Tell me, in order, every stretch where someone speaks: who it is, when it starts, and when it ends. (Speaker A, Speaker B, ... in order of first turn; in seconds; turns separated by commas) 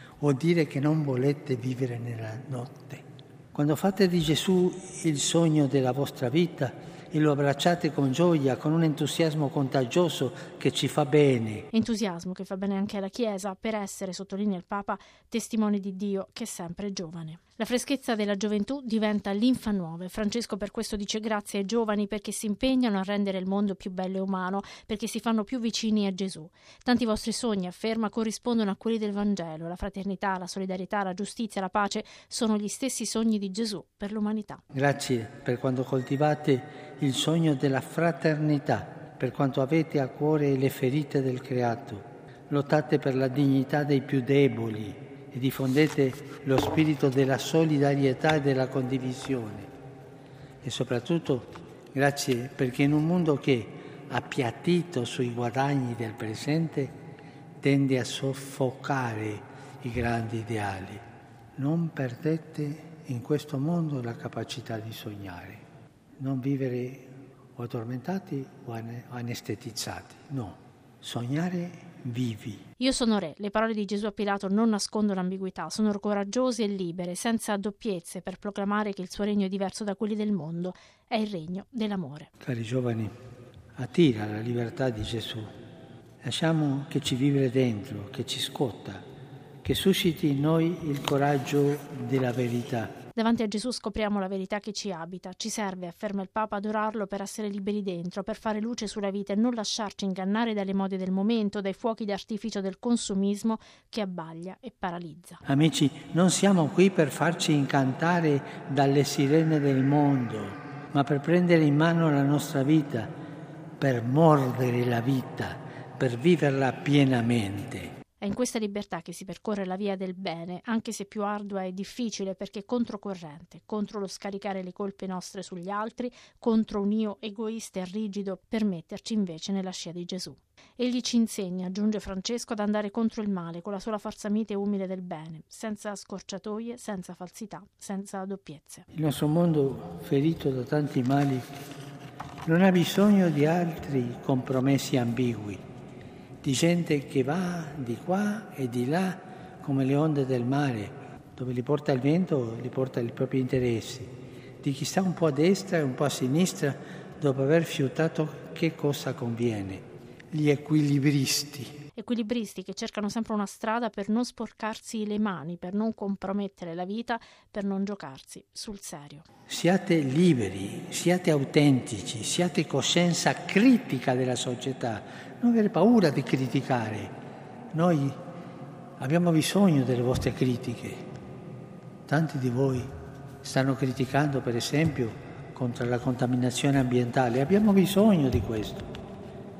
Speaker A: 0.2-11.7, Speaker B: 11.7-34.6, Speaker A: 34.7-49.7, Speaker A: 50.6-57.0, Speaker A: 57.6-61.0, Speaker A: 61.5-65.6, Speaker A: 66.2-72.6, Speaker B: 72.8-82.3, Speaker A: 82.4-83.1, Speaker A: 83.8-85.5, Speaker A: 86.2-89.0, Speaker A: 89.6-92.9, Speaker B: 93.1-105.4, Speaker A: 105.5-113.1, Speaker A: 113.8-117.9, Speaker B: 118.2-138.8, Speaker A: 138.9-141.5, Speaker A: 142.4-145.6, Speaker A: 146.4-161.8, Speaker B: 161.9-169.2, Speaker A: 169.5-177.1, Speaker A: 177.7-178.2, Speaker A: 179.0-181.1, Speaker A: 182.1-182.9, Speaker A: 183.4-188.9